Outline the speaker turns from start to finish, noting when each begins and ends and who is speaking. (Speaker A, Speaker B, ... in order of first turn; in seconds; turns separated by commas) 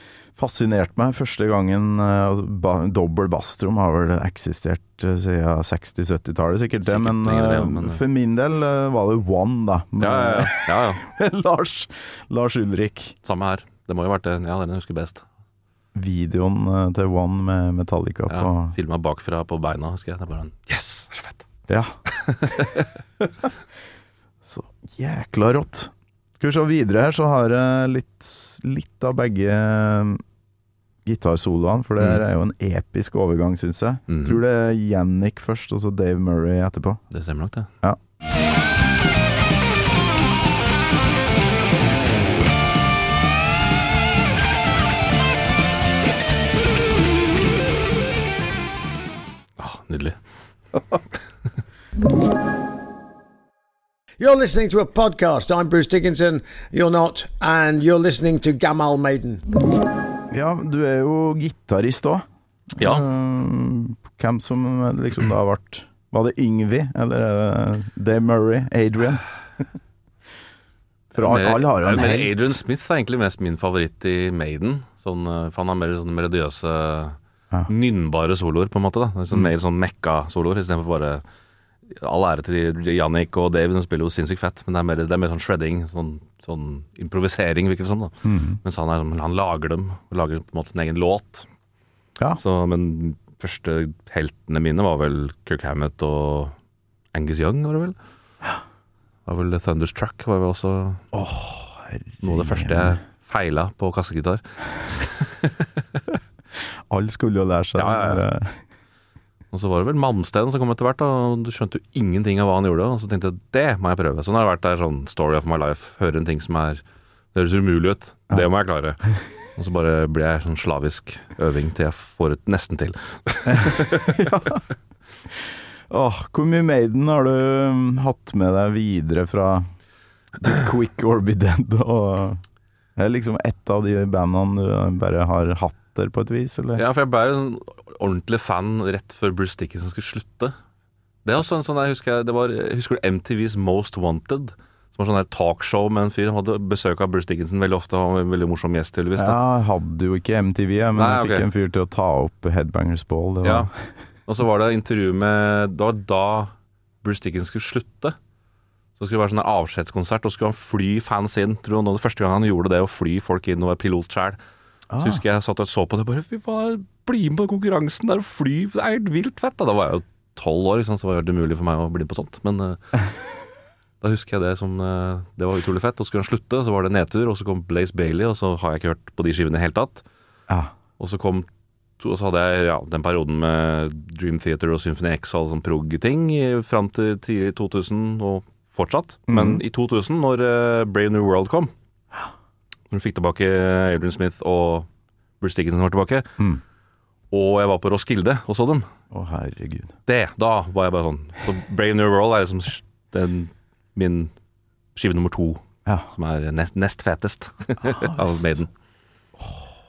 Speaker A: 0.4-13.2, Speaker B: 6.8-8.0, Speaker B: 10.0-11.0, Speaker B: 13.2-15.2, Speaker A: 15.9-18.7, Speaker B: 18.3-21.4, Speaker A: 21.7-21.9, Speaker B: 22.1-22.9, Speaker A: 24.4-30.2, Speaker A: 31.0-37.0, Speaker B: 34.1-34.4, Speaker B: 37.1-37.7, Speaker B: 49.6-50.2, Speaker C: 54.2-59.4, Speaker A: 60.3-69.7, Speaker B: 62.8-63.0, Speaker A: 71.1-72.6, Speaker B: 71.2-81.2, Speaker B: 81.9-91.5, Speaker A: 88.2-88.6, Speaker B: 92.4-96.5, Speaker B: 97.1-98.0, Speaker B: 99.2-101.1, Speaker A: 101.1-103.0, Speaker B: 102.2-105.5, Speaker A: 106.9-108.6, Speaker B: 107.8-108.2, Speaker B: 109.5-116.8, Speaker B: 117.3-124.2, Speaker A: 123.5-124.6, Speaker A: 125.9-129.7, Speaker A: 130.4-132.4, Speaker A: 132.9-136.8, Speaker B: 136.7-140.5, Speaker B: 141.2-149.4, Speaker A: 149.2-153.7, Speaker B: 150.9-151.5, Speaker B: 153.4-153.7, Speaker B: 154.3-158.2, Speaker B: 159.0-164.4, Speaker A: 164.9-165.2, Speaker B: 165.0-172.9, Speaker B: 174.0-180.0, Speaker B: 181.0-181.5, Speaker B: 182.0-191.7, Speaker A: 189.3-189.6, Speaker B: 192.9-194.9, Speaker B: 195.4-196.4, Speaker B: 197.3-198.9, Speaker A: 199.1-199.9, Speaker B: 200.1-204.3, Speaker B: 204.9-208.7, Speaker A: 207.8-208.4